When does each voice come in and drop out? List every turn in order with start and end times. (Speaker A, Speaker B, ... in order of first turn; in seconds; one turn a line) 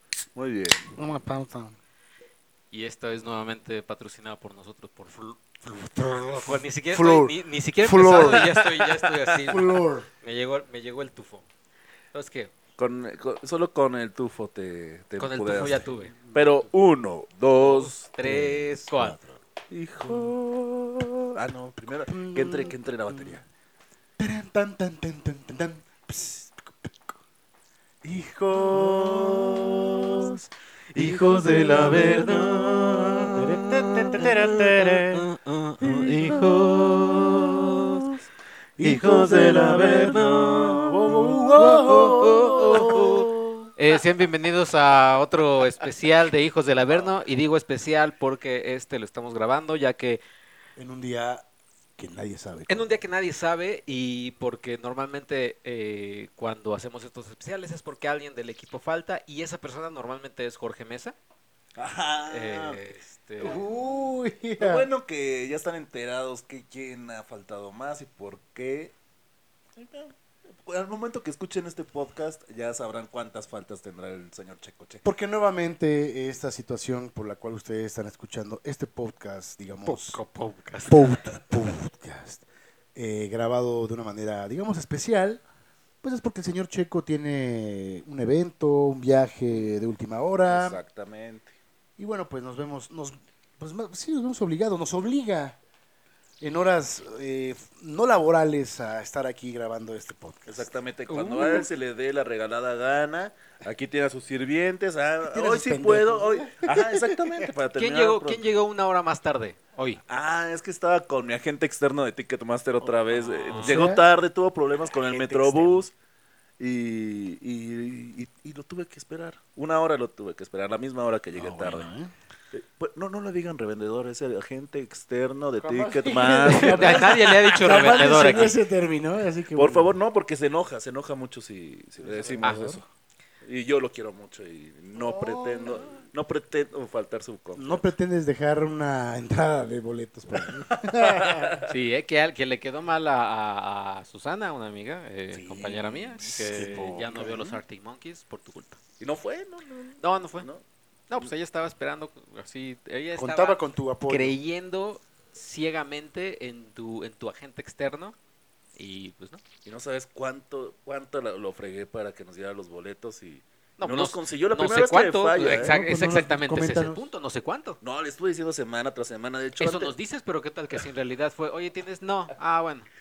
Speaker A: 0.3-1.0
Speaker B: 1.0-1.8
Speaker C: 2.7-5.4
Speaker B: 5.6-8.5
Speaker C: 6.3-11.5
Speaker A: 8.1-9.6
Speaker B: 9.5-10.1
Speaker C: 12.1-12.5
Speaker A: 12.8-18.1
Speaker C: 15.2-16.2
Speaker B: 16.2-16.6
Speaker C: 17.5-19.2
Speaker B: 18.2-19.3
Speaker A: 19.7-23.4
Speaker B: 20.1-20.3
Speaker B: 22.1-23.4
Speaker B: 24.2-26.9
Speaker B: 28.0-30.4
Speaker A: 28.6-30.4
Speaker A: 30.9-33.5
Speaker B: 31.0-32.3
Speaker C: 31.4-33.3
Speaker B: 33.4-35.2
Speaker A: 34.2-34.8
Speaker C: 34.5-38.0
Speaker A: 35.8-38.2
Speaker A: 38.8-43.7
Speaker C: 38.8-50.2
Speaker B: 39.1-40.0
Speaker B: 40.6-43.3
Speaker B: 50.8-51.5
Speaker B: 52.0-53.0
Speaker C: 52.7-61.1
Speaker A: 61.8-62.8
Speaker C: 62.3-63.6
Speaker B: 63.4-64.9
Speaker A: 63.4-69.0
Speaker A: 69.8-75.0
Speaker B: 75.0-80.2
Speaker C: 79.9-81.4
Speaker B: 80.9-82.4
Speaker B: 83.0-85.4
Speaker B: 86.0-90.8
Speaker A: 90.5-91.5
Speaker B: 92.0-95.6
Speaker B: 96.4-100.6
Speaker A: 100.5-108.4
Speaker C: 101.1-101.7
Speaker B: 105.2-107.2
Speaker C: 107.8-110.0
Speaker A: 110.1-115.9
Speaker C: 113.4-113.9
Speaker B: 113.5-114.1
Speaker B: 114.9-115.8
Speaker A: 116.6-121.9
Speaker B: 121.3-122.1
Speaker A: 122.5-128.6
Speaker B: 125.6-129.9
Speaker C: 126.5-128.6
Speaker A: 129.5-132.8
Speaker B: 132.0-132.8
Speaker C: 132.4-132.7
Speaker A: 133.4-137.8
Speaker B: 134.9-136.0
Speaker B: 137.6-141.7
Speaker A: 140.4-141.7
Speaker C: 141.7-148.8
Speaker A: 145.3-147.1
Speaker B: 147.1-147.6
Speaker A: 149.0-150.6
Speaker C: 150.0-150.5
Speaker C: 151.1-158.2
Speaker B: 153.2-154.3
Speaker C: 158.8-159.4
Speaker A: 159.7-165.7
Speaker C: 163.8-167.8
Speaker B: 165.4-167.0
Speaker A: 167.8-169.9
Speaker C: 169.6-172.9